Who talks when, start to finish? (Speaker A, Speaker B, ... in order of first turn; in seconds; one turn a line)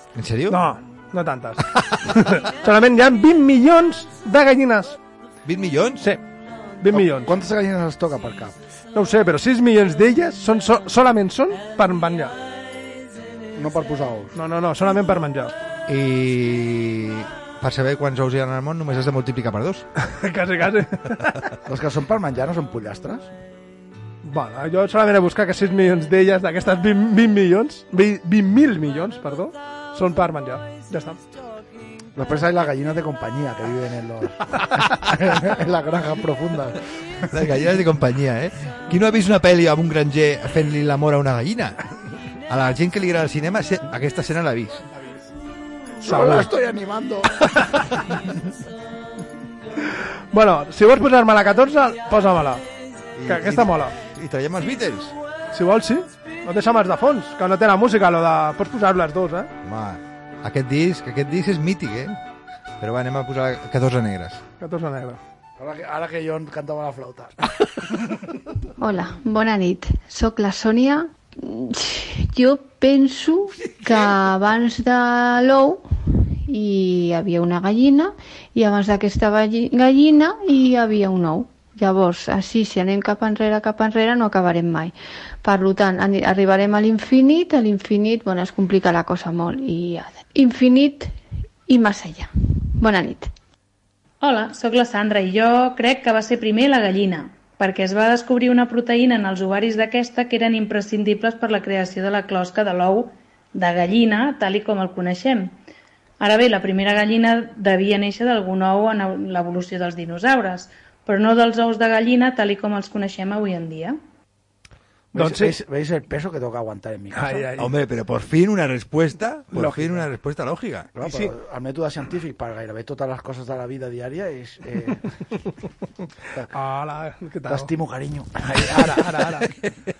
Speaker A: 0.1-0.6
Speaker B: 0.5-5.0
Speaker A: 5.5-6.0
Speaker B: 6.8-7.3
Speaker C: 6.9-8.6
Speaker B: 8.9-12.3
Speaker C: 13.6-14.3
Speaker B: 14.3-15.5
Speaker A: 15.9-19.8
Speaker B: 20.0-21.4
Speaker C: 21.6-23.3
Speaker B: 24.2-31.2
Speaker C: 32.1-34.4
Speaker C: 35.0-36.8
Speaker A: 37.3-41.8
Speaker A: 42.5-44.8
Speaker C: 46.0-47.3
Speaker B: 46.0-46.5
Speaker B: 50.3-52.6
Speaker A: 53.1-55.1
Speaker B: 53.3-53.9
Speaker B: 55.5-59.5
Speaker A: 59.6-62.2
Speaker A: 62.8-64.4
Speaker B: 64.6-65.2
Speaker C: 65.6-67.4
Speaker D: 68.8-75.8
Speaker D: 76.5-84.9
Speaker D: 85.4-91.1
Speaker D: 91.7-93.3
Speaker E: 94.2-105.6
Speaker E: 106.2-114.0
Speaker C: 115.1-117.5
Speaker B: 115.2-115.5
Speaker B: 117.1-117.7
Speaker A: 117.6-120.9
Speaker B: 119.5-120.0
Speaker C: 120.9-125.0
Speaker B: 121.0-121.3
Speaker B: 126.5-127.7
Speaker C: 127.5-128.9
Speaker B: 128.5-129.5